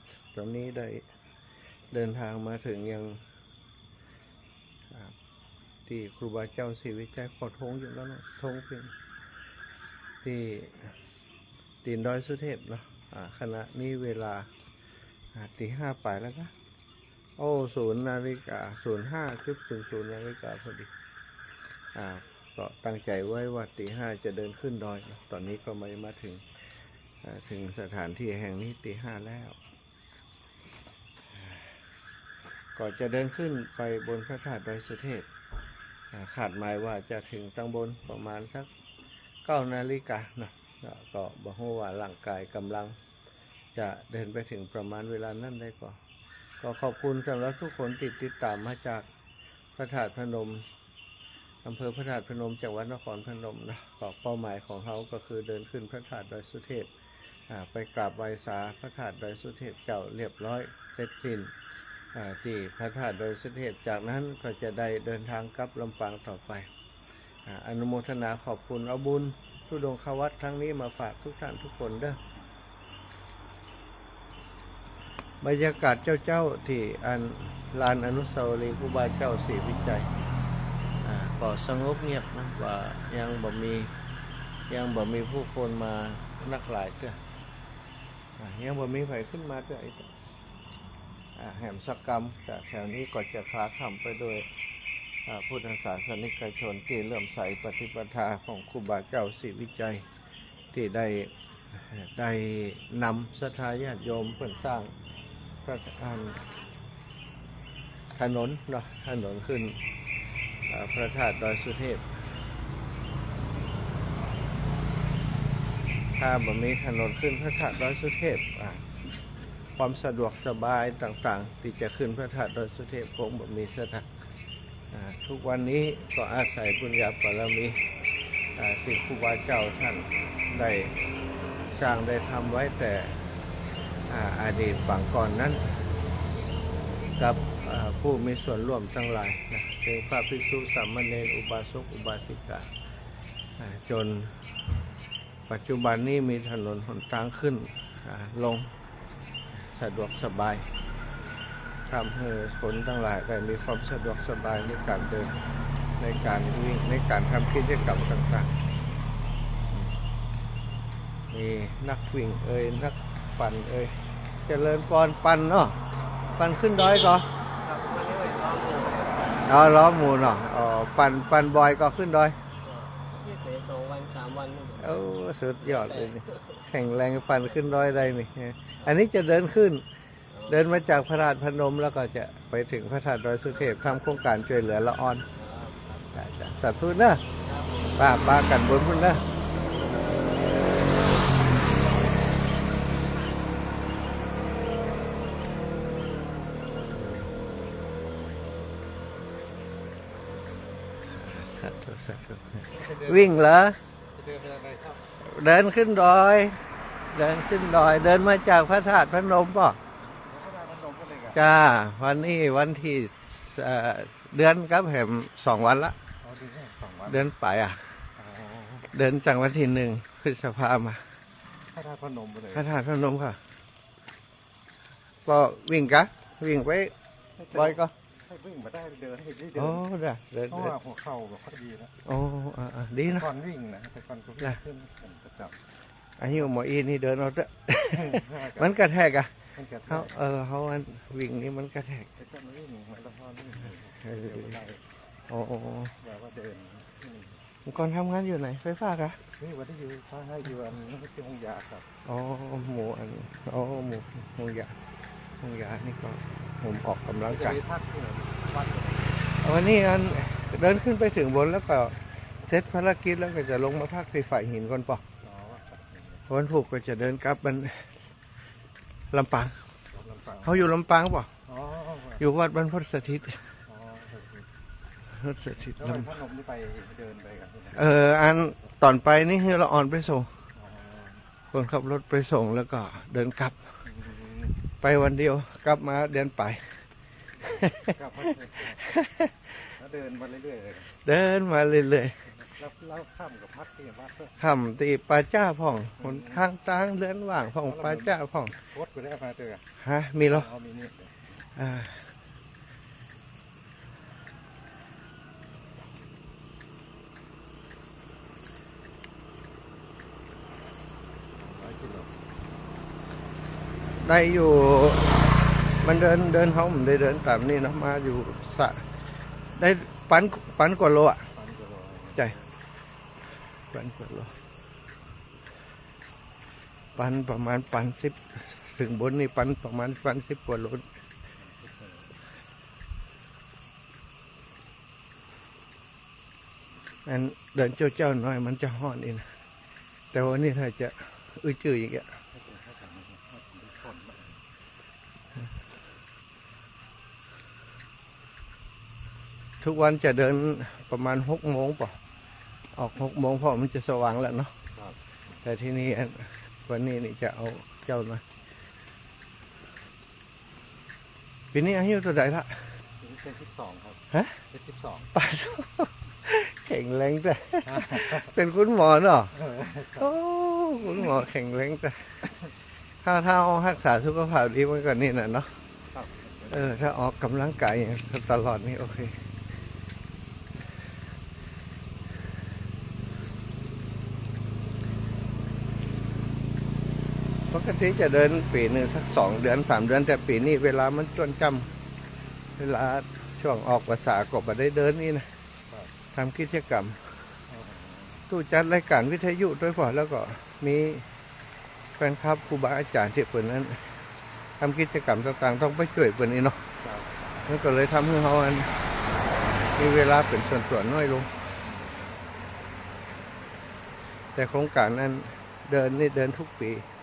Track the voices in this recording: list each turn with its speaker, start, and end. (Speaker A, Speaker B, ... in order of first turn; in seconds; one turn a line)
Speaker A: 0.3-1.0
Speaker A: 1.9-3.2
Speaker A: 5.8-8.9
Speaker A: 10.2-10.9
Speaker A: 11.8-14.5
Speaker A: 15.3-16.5
Speaker A: 17.4-20.9
Speaker A: 21.9-26.4
Speaker A: 27.2-29.6
Speaker A: 31.3-31.7
Speaker A: 32.7-35.3
Speaker A: 36.1-38.7
Speaker A: 39.4-43.0
Speaker A: 43.7-46.0
Speaker A: 46.6-49.0
Speaker A: 49.7-50.7
Speaker A: 51.6-56.9
Speaker A: 57.5-61.5
Speaker A: 62.1-66.7
Speaker A: 67.5-72.2
Speaker A: 75.4-80.1
Speaker A: 81.0-83.9
Speaker A: 84.7-87.2
Speaker A: 88.4-90.1
Speaker A: 91.3-94.5
Speaker A: 95.2-100.0
Speaker A: 100.7-104.9
Speaker A: 105.6-106.6
Speaker A: 108.1-109.8
Speaker A: 110.7-112.1
Speaker A: 116.2-118.9
Speaker A: 119.8-124.1
Speaker A: 124.9-127.8
Speaker A: 128.5-131.0
Speaker A: 131.7-133.2
Speaker A: 134.1-135.7
Speaker A: 137.2-142.7
Speaker A: 143.6-144.4
Speaker A: 145.5-148.7
Speaker A: 149.5-150.7
Speaker A: 151.9-155.3
Speaker A: 156.0-158.5
Speaker A: 161.3-165.8
Speaker A: 166.4-167.3
Speaker B: 167.6-169.5
Speaker A: 169.4-172.4
Speaker B: 172.6-175.0
Speaker A: 174.8-179.8
Speaker B: 175.6-176.4
Speaker B: 180.3-181.0
Speaker A: 180.5-185.2
Speaker B: 183.5-184.2
Speaker B: 185.3-186.1
Speaker A: 186.1-187.2
Speaker B: 187.3-188.4
Speaker A: 188.0-189.2
Speaker B: 189.5-190.8
Speaker A: 201.1-203.8
Speaker C: 202.7-203.3
Speaker C: 204.1-205.1
Speaker A: 205.2-209.8
Speaker C: 210.2-211.4
Speaker A: 211.3-215.9
Speaker C: 216.2-217.2
Speaker A: 217.1-217.8
Speaker C: 218.2-218.9
Speaker A: 218.9-221.0
Speaker C: 221.7-222.7
Speaker A: 222.5-223.4
Speaker A: 225.2-226.9
Speaker C: 227.3-229.8
Speaker A: 227.5-227.9
Speaker A: 229.5-230.7
Speaker C: 230.5-231.9
Speaker A: 232.0-233.3
Speaker C: 233.1-235.6
Speaker A: 236.2-239.3
Speaker C: 237.9-238.8
Speaker C: 239.5-240.2
Speaker A: 239.9-242.1
Speaker C: 242.2-244.8
Speaker A: 245.3-245.9
Speaker C: 246.0-247.4
Speaker A: 247.6-249.2
Speaker C: 249.4-251.9
Speaker A: 252.0-254.8
Speaker A: 255.4-257.6
Speaker C: 257.2-259.2
Speaker A: 259.3-265.0
Speaker C: 265.2-266.2
Speaker A: 266.3-267.9
Speaker A: 269.1-269.6
Speaker C: 269.9-270.7
Speaker A: 270.4-271.3
Speaker C: 271.5-272.2
Speaker A: 272.2-273.4
Speaker C: 273.6-274.5
Speaker A: 275.1-276.1
Speaker C: 275.6-277.8
Speaker A: 277.7-280.3
Speaker C: 280.5-281.2
Speaker A: 281.5-283.6
Speaker C: 283.8-284.6
Speaker A: 284.8-286.7
Speaker C: 287.8-288.8
Speaker A: 288.8-289.6
Speaker C: 289.7-291.0
Speaker A: 291.0-292.2
Speaker C: 292.3-294.3
Speaker A: 294.4-298.6
Speaker C: 296.0-296.4
Speaker C: 297.6-299.7
Speaker A: 299.8-300.5
Speaker C: 300.2-301.2
Speaker A: 301.5-302.1
Speaker C: 311.5-312.1
Speaker A: 314.0-318.8
Speaker A: 319.5-321.3
Speaker C: 321.3-322.5
Speaker A: 323.7-324.4
Speaker A: 326.9-330.9
Speaker C: 331.4-332.2
Speaker A: 337.0-339.3
Speaker A: 340.1-342.1
Speaker C: 342.3-344.4
Speaker A: 349.6-352.0
Speaker A: 352.7-354.5
Speaker A: 355.4-358.2
Speaker A: 361.5-362.7
Speaker C: 363.0-365.1
Speaker A: 365.1-369.4
Speaker C: 369.4-370.0
Speaker A: 369.9-372.3
Speaker A: 373.0-375.6
Speaker C: 375.9-376.9
Speaker A: 376.5-379.2
Speaker A: 387.5-391.7
Speaker A: 392.6-395.3
Speaker A: 396.1-397.2
Speaker C: 397.5-398.3
Speaker A: 398.3-401.1
Speaker A: 402.0-404.0
Speaker A: 404.6-406.6
Speaker C: 406.7-407.5
Speaker A: 407.4-408.7
Speaker A: 409.7-411.3
Speaker C: 411.6-412.5
Speaker A: 414.3-416.9